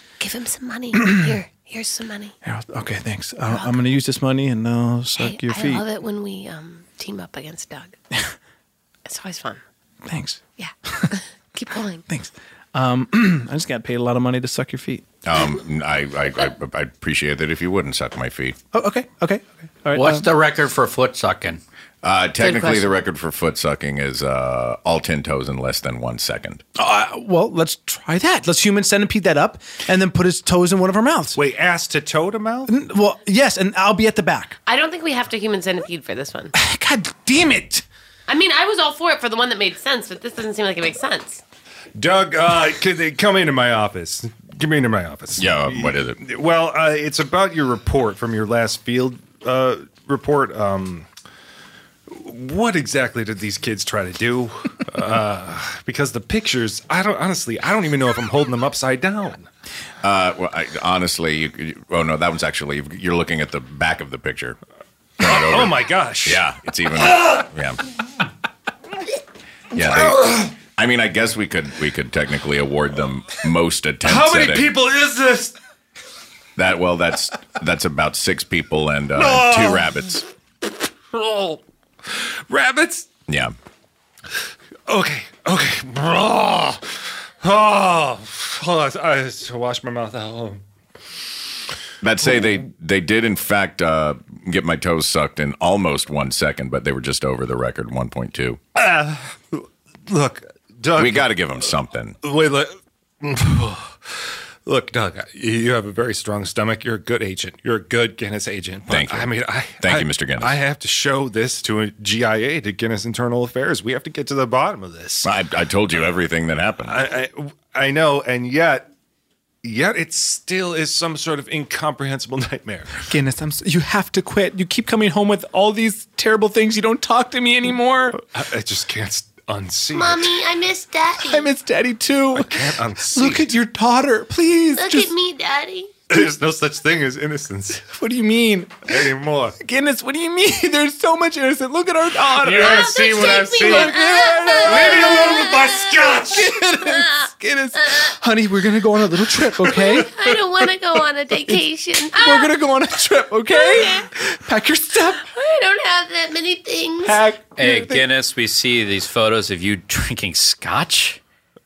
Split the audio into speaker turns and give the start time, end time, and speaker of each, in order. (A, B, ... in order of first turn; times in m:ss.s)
0:00.2-0:02.3 A
0:00.9-0:01.4 B
0:02.4-0:05.8 B
0:03.5-0:03.7 A
0:05.2-0:08.0 A
0:09.0-0:09.6 A
0:10.0-0:11.1 B
0:10.6-0:12.0 A
0:12.1-0:15.0 B
0:15.2-0:18.6 C
0:18.7-0:20.3 B
0:19.9-0:21.6 D
0:22.0-0:26.6 C
0:22.4-0:22.9 A
0:26.8-0:31.4 B
0:31.4-0:32.7 E
0:32.7-0:34.6 B
0:34.6-0:36.5 A
0:36.6-0:37.8 B
0:38.3-0:41.4 A
0:42.0-0:51.1 E
0:45.4-0:46.2 C
0:52.1-0:59.5 E
1:00.0-1:04.6 C
1:05.2-1:06.4 E
1:05.2-1:07.8 C
1:07.0-1:07.4 E
1:09.7-1:14.7 C
1:09.8-1:10.5 E
1:14.0-1:15.5 E
1:16.6-1:20.2 C
1:19.1-1:20.0 E
1:21.1-1:23.1 E
1:23.3-1:23.5 C
1:24.9-1:30.6 E
1:32.0-1:38.6 C
1:38.7-1:41.3 E
1:41.0-1:42.2 C
1:42.2-1:55.3 E
1:48.9-1:50.6 C
1:55.2-1:57.0 C
1:56.8-1:58.9 E
1:59.6-2:03.0 E
2:03.1-2:08.2 B
2:08.3-2:10.4 E
2:09.9-2:11.5 A
2:11.2-2:15.1 B
2:12.3-2:13.5 E
2:14.8-2:16.0 A
2:16.1-2:17.8 E
2:17.8-2:18.9 B
2:18.9-2:19.5 E
2:19.6-2:25.4 B
2:22.3-2:24.0 E
2:22.6-2:26.2 A
2:24.6-2:26.5 E
2:26.3-2:30.4 B
2:26.7-2:27.3 A
2:29.7-2:32.5 A
2:31.3-2:35.2 B
2:33.5-2:34.1 A
2:35.3-2:37.3 A
2:37.0-2:38.0 B
2:37.6-2:41.2 D